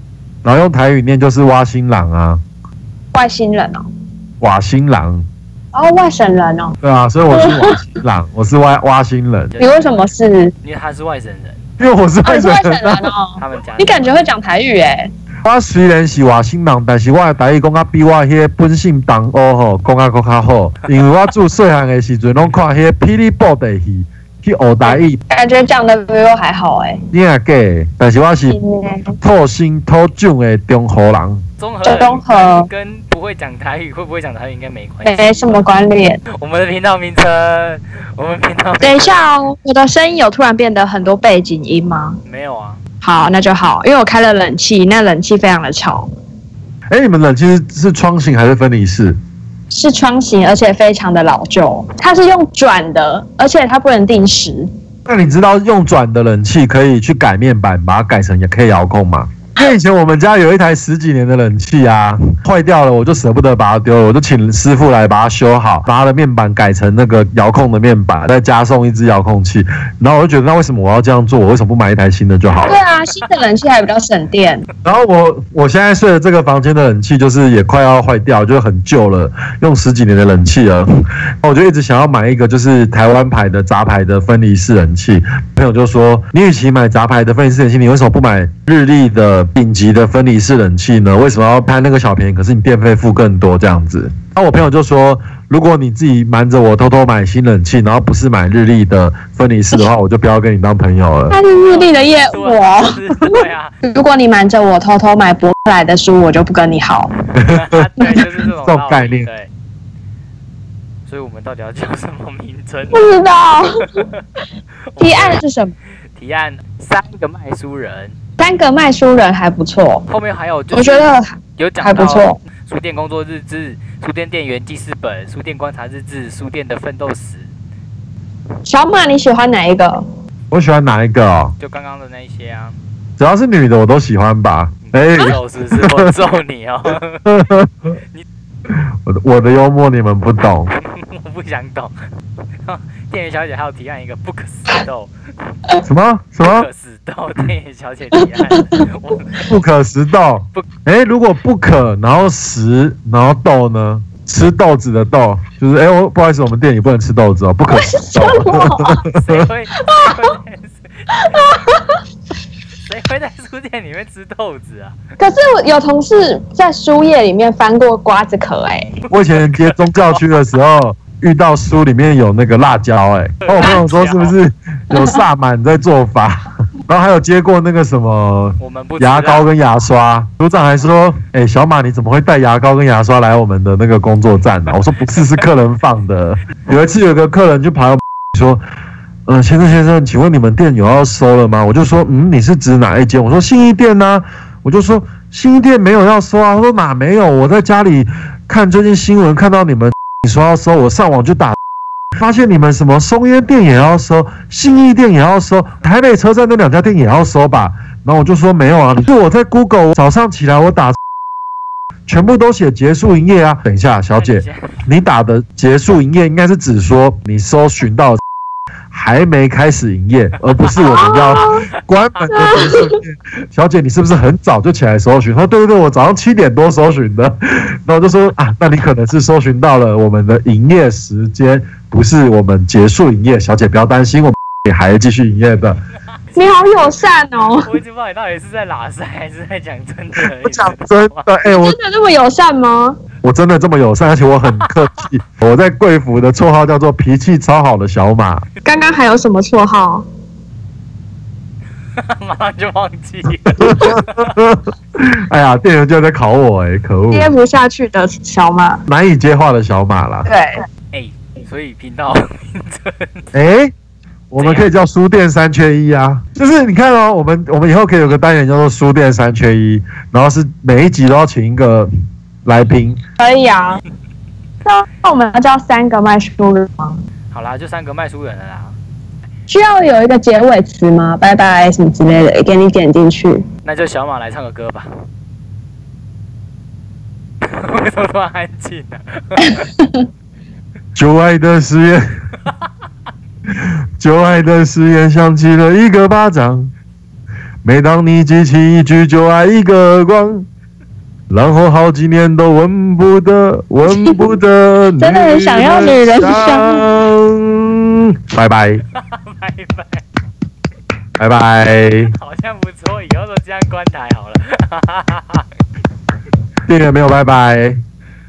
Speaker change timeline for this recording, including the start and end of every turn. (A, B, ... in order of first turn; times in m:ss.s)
0:00.4-0:02.4 A
0:03.1-0:03.8 B
0:04.4-0:05.2 A
0:05.7-0:06.8 B
0:06.8-0:09.5 A
0:07.3-0:07.8 B
0:09.5-0:11.6 C
0:09.6-0:10.5 B
0:11.8-0:13.1 A
0:12.2-0:15.1 B
0:13.4-0:14.1 C
0:15.4-0:25.2 A
0:25.3-0:27.0 B
0:27.1-0:28.6 A
0:28.5-0:29.2 B
0:29.2-0:31.4 A
0:31.6-0:35.7 C
0:31.8-0:32.7 B
0:35.0-0:36.2 B
0:36.3-0:39.3 C
0:38.8-0:42.2 B
0:42.2-0:42.8 C
0:43.0-0:46.1 B
0:46.9-0:49.2 A
0:49.7-0:54.7 B
0:55.0-1:12.8 A
1:12.6-1:14.6 B
1:12.9-1:13.3 C
1:14.8-1:20.8 A
1:21.4-1:41.4 A
1:41.3-1:47.1 B
1:41.5-1:43.7 C
1:47.3-1:47.8 A
1:47.4-1:49.5 C
1:48.6-1:49.3 A
1:51.0-1:53.2 C
1:52.9-1:53.9 B
1:53.8-1:54.2 C
1:54.9-1:55.4 C
1:55.0-1:55.7 B
1:56.1-1:58.2 C
1:58.4-2:00.0 B
2:00.1-2:07.5 C
2:00.7-2:02.4 B
2:08.6-2:10.0 B
2:10.5-2:11.5 A
2:11.6-2:12.8 C
2:13.2-2:16.0 A
2:14.8-2:17.3 C
2:17.2-2:17.7 A
2:19.0-2:20.7 A
2:20.8-2:21.9 C
2:22.6-2:25.1 C
2:25.8-2:26.7 A
2:26.4-2:29.4 C
2:28.2-2:28.8 B
2:29.4-2:39.4 A
2:37.7-2:39.0 B
2:39.1-2:41.6 C
2:39.8-2:40.2 B
2:41.1-2:42.0 B
2:42.9-2:45.0 C
2:45.2-2:48.9 B
2:48.9-2:50.2 C
2:49.1-3:08.6 A
2:53.4-2:54.4 C
2:58.6-2:59.4 C
3:05.1-3:05.4 C
3:09.3-3:21.6 A
3:22.2-3:31.0 A
3:32.0-3:38.2 A
3:34.2-3:34.8 C
3:38.9-3:55.8 A
3:40.5-3:41.5 C
3:40.9-3:41.6 B
3:42.3-3:43.0 B
3:56.3-3:57.0 C
3:56.3-3:57.7 B
3:57.6-4:01.3 C
4:00.5-4:01.8 A
4:01.4-4:03.0 B
4:03.2-4:08.4 A
4:08.6-4:10.0 B
4:08.7-4:09.0 C
4:12.0-4:14.3 C
4:13.6-4:17.3 A
4:17.1-4:18.8 B
4:18.9-4:20.3 A
4:20.2-4:20.6 B
4:20.9-4:23.3 C
4:23.3-4:23.7 A
4:24.3-4:31.9 A
4:24.4-4:24.7 C
4:32.4-4:33.0 A
4:33.2-4:33.8 B
4:34.6-4:37.0 B
4:37.3-4:38.7 C
4:39.5-4:43.4 B
4:43.6-4:44.9 C
4:47.4-4:49.6 C
4:50.9-4:52.0 A
4:54.0-4:56.7 A
4:57.6-5:00.4 A
5:01.3-5:08.8 A
5:03.9-5:04.2 B
5:05.0-5:06.9 B
5:08.9-5:10.0 C
5:11.2-5:12.1 A
5:12.0-5:15.4 C
5:16.7-5:17.8 A